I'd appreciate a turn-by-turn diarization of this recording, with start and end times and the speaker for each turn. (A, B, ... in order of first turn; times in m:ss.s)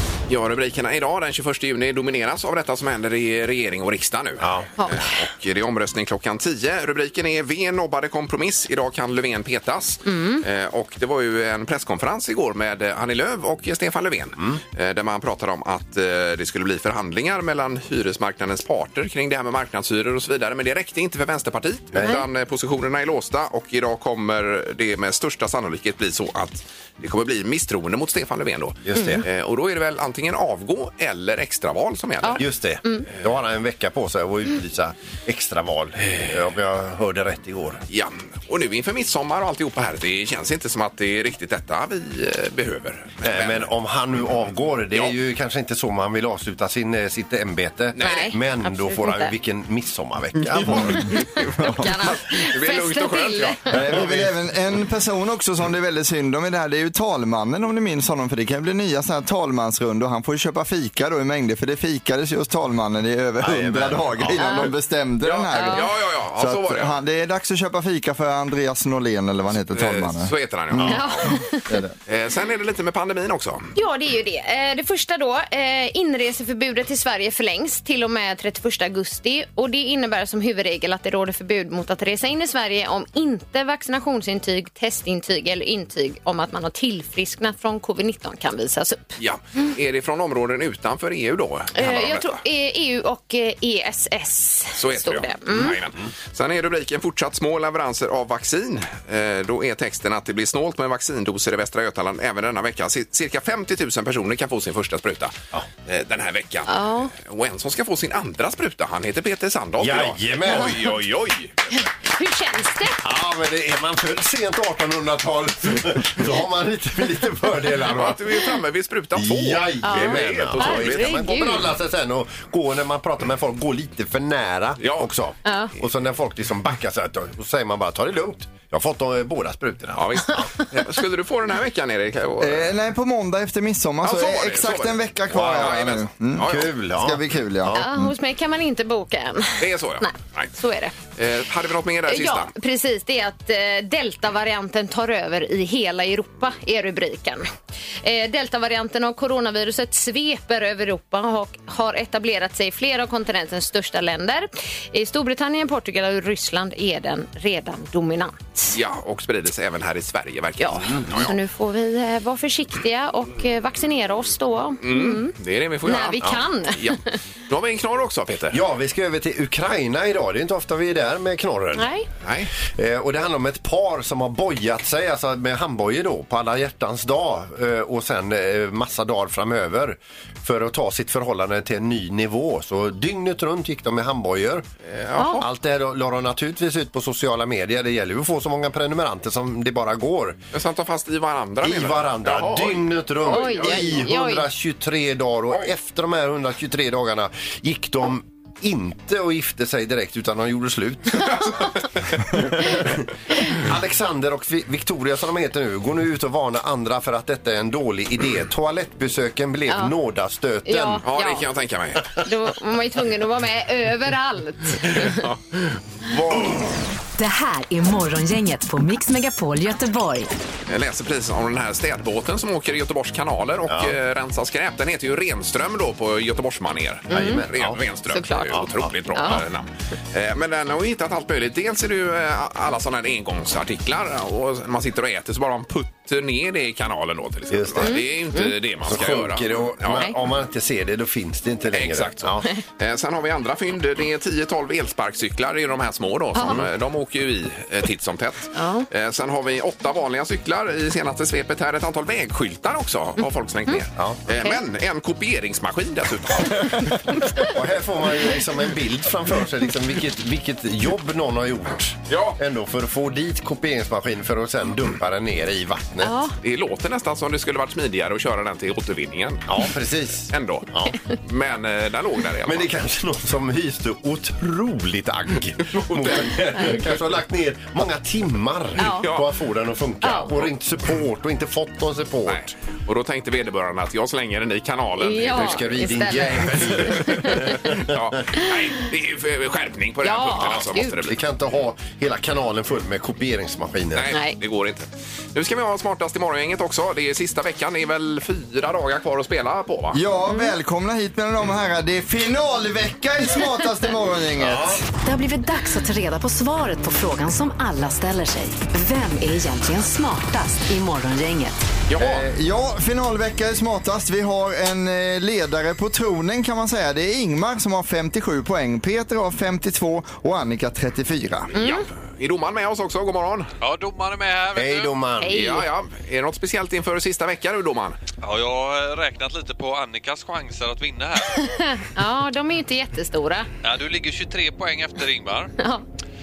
0:00.3-0:32.4 A
0:04.4-0:04.7 B
0:04.8-0:05.2 C
0:10.1-0:10.4 C
0:21.9-0:22.2 B
0:28.8-0:29.3 B
0:32.2-0:33.1 C
0:32.4-0:37.8 B
0:37.9-0:43.7 A
0:43.2-0:51.1 B
0:47.9-0:48.3 A
0:48.0-0:49.3 C
0:50.5-0:54.0 A
0:51.1-0:53.6 C
0:53.7-1:11.0 D
0:53.8-0:54.3 B
1:03.4-1:04.6 B
1:04.4-1:04.7 C
1:05.2-1:06.9 A
1:05.5-1:05.9 C
1:09.7-1:11.3 A
1:10.9-1:11.7 C
1:11.7-1:11.9 D
1:12.1-1:13.7 A
1:13.8-1:29.2 C
1:29.2-1:32.4 A
1:31.8-1:35.8 C
1:34.8-1:45.3 A
1:45.8-1:51.6 A
1:46.7-1:47.1 C
1:49.8-1:51.0 B
1:51.7-1:53.0 C
1:53.0-1:58.6 B
1:57.8-2:01.3 A
1:59.2-2:10.5 B
1:59.8-2:01.7 C
2:04.8-2:05.1 A
2:05.4-2:05.7 C
2:10.0-2:12.7 A
2:12.4-2:18.1 D
2:14.0-2:16.7 A
2:16.4-2:17.9 B
2:17.7-2:21.0 C
2:19.6-2:20.5 A
2:21.2-2:22.5 A
2:22.1-2:27.5 C
2:28.0-2:38.7 C
2:38.7-2:41.4 A
2:40.6-2:45.3 C
2:44.8-2:48.6 A
2:45.8-2:47.2 C
2:48.5-2:51.9 B
2:51.8-2:52.1 C
2:52.2-2:52.5 A
2:52.7-3:04.7 B
3:04.8-3:05.5 A
3:05.2-3:05.4 C
3:05.4-3:10.4 B
3:10.5-3:14.0 A
3:11.6-3:31.0 B
3:13.3-3:14.5 C
3:29.7-3:30.0 C
3:30.6-3:31.5 C
3:31.0-3:32.1 A
3:32.2-3:35.2 C
3:34.9-3:36.5 A
3:37.2-3:40.3 E
3:40.7-4:00.1 A
3:43.7-3:44.0 B
3:47.1-3:47.4 C
3:47.1-3:47.8 B
3:48.1-3:49.4 C
3:48.5-3:49.4 B
3:57.5-3:58.0 B
3:57.8-3:58.6 C
3:58.9-4:02.5 B
4:01.7-4:17.0 A
4:06.4-4:06.6 C
4:06.4-4:06.7 B
4:08.6-4:08.9 C
4:17.2-4:17.5 C
4:17.5-4:26.2 B
4:22.1-4:22.4 A
4:26.0-4:26.3 C
4:26.4-4:29.4 A
4:29.5-4:31.0 B
4:30.3-4:32.7 A
4:32.5-4:42.5 B
4:35.7-4:37.0 A
4:38.8-4:39.1 C
4:38.8-4:39.3 A
4:40.0-4:40.3 C
4:42.3-4:45.9 A
4:45.0-4:47.7 C
4:45.3-4:48.0 B
4:46.5-4:51.2 A
4:50.0-4:51.0 C
4:51.1-4:54.1 B
4:53.9-5:00.0 A
4:54.1-4:54.4 C
4:59.9-5:04.8 D
5:04.4-5:04.9 B
5:05.0-5:11.6 E
5:11.9-5:12.2 A
5:12.0-5:21.5 D
5:21.5-5:23.5 A
5:21.6-5:21.8 C
5:23.6-5:24.9 F
5:24.6-5:25.6 B
5:25.2-5:25.7 C
5:25.3-5:28.0 A
5:28.2-5:31.4 F
5:31.4-5:33.5 C
5:33.6-5:35.5 F